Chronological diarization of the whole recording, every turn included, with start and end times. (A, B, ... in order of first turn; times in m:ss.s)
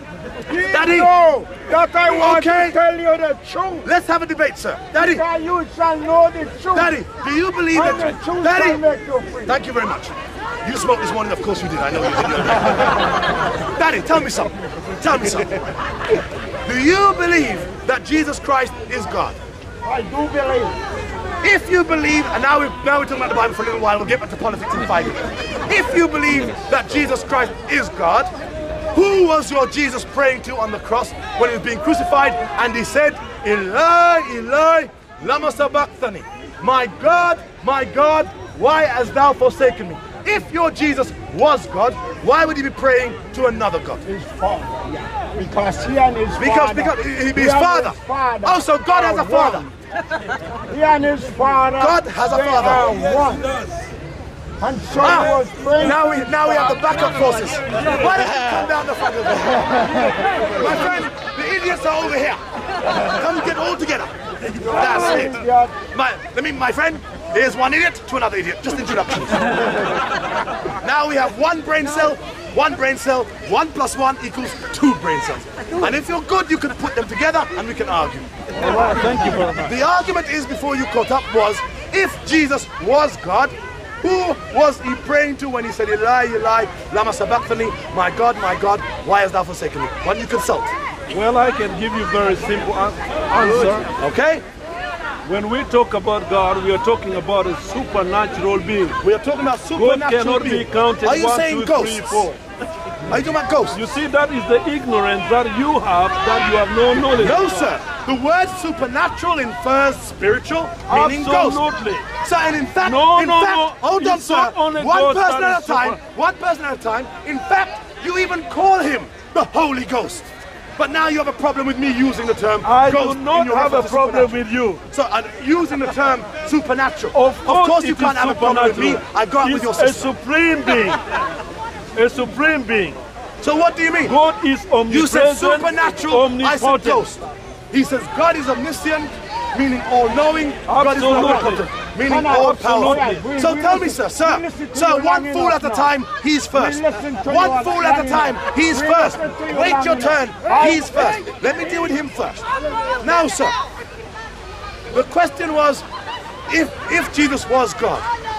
0:00.5-0:03.9 A
0:00.7-0:01.1 B
0:02.1-0:02.8 B
0:03.8-0:05.2 B
0:04.9-0:07.0 A
0:06.8-0:08.8 B
0:07.7-0:09.6 A
0:09.5-0:10.1 B
0:10.6-0:13.0 B
0:13.7-0:15.7 B
0:16.6-0:19.4 B
0:19.8-0:20.8 A
0:21.4-0:28.3 B
0:28.9-0:44.0 B
0:44.0-0:49.7 A
0:46.4-0:49.7 B
0:50.7-0:53.6 A
0:51.8-0:52.9 B
0:54.6-0:56.8 A
0:55.0-1:02.4 B
1:03.0-1:05.4 B
1:04.6-1:05.8 A
1:05.9-1:09.7 B
1:10.8-1:18.3 B
1:18.6-1:19.7 C
1:19.5-1:30.8 B
1:31.1-1:33.9 C
1:33.9-1:34.4 B
1:35.2-1:39.0 C
1:39.0-1:42.3 B
1:39.8-1:42.4 C
1:43.1-1:43.8 B
1:43.7-1:47.7 C
1:47.1-1:51.6 B
1:50.9-1:52.1 C
1:52.2-2:04.4 B
1:52.8-1:56.0 C
2:02.6-2:04.8 C
2:04.9-2:10.1 B
2:07.1-2:11.0 C
2:12.0-2:13.0 C
2:13.4-2:14.2 B
2:14.0-2:17.1 C
2:14.9-2:32.5 B
2:20.7-2:21.6 C
2:22.1-2:25.9 A
2:22.3-2:23.2 C
2:26.5-2:31.2 A
2:33.0-2:33.6 B
2:34.9-2:35.9 B
2:36.5-2:38.1 B